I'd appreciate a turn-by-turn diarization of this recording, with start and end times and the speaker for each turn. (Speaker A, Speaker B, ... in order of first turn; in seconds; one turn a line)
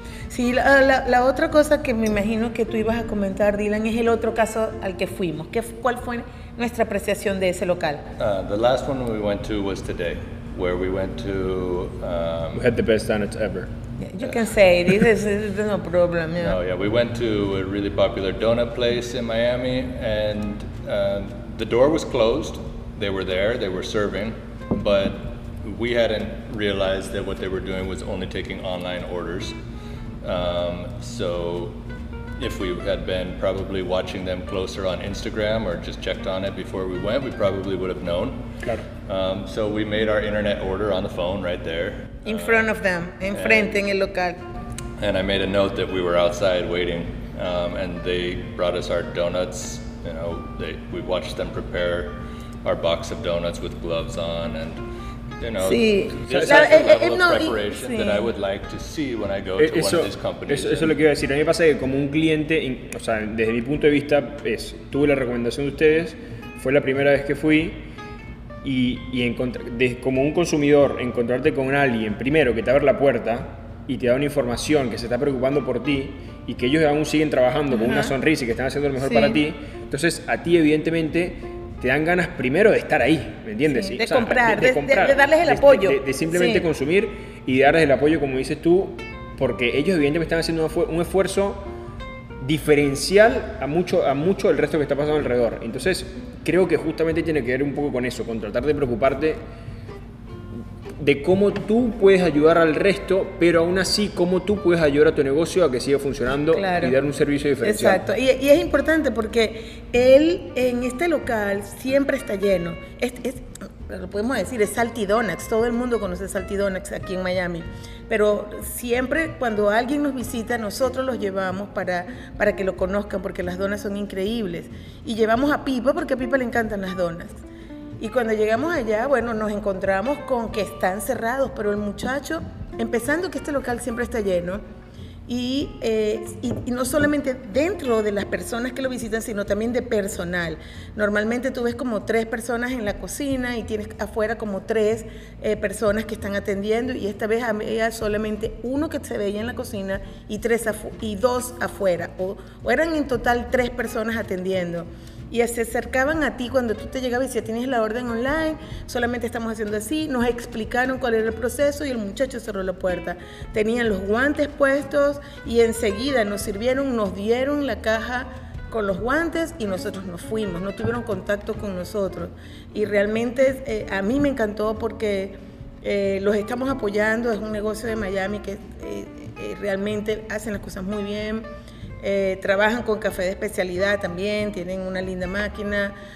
Speaker A: 0.3-8.1
Speaker B: 8.2-12.7
Speaker C: 12.5-13.7
Speaker A: 14.0-16.6
Speaker B: 16.4-29.5
Speaker B: 30.2-31.8
Speaker B: 32.4-38.5
Speaker B: 39.0-42.7
Speaker A: 42.2-44.4
Speaker B: 43.3-43.7
Speaker B: 45.0-54.8
Speaker B: 55.4-61.0
Speaker A: 55.6-58.3
Speaker C: 56.2-56.8
Speaker C: 59.6-67.8
Speaker C: 68.6-91.7
Speaker A: 77.7-78.1
Speaker A: 79.0-79.4
Speaker A: 83.7-86.7
Speaker C: 92.4-99.4
Speaker C: 101.0-108.0
Speaker A: 106.5-107.0
Speaker A: 107.6-127.4
Speaker A: 128.0-134.6
Speaker A: 135.3-181.5
Speaker A: 182.0-185.9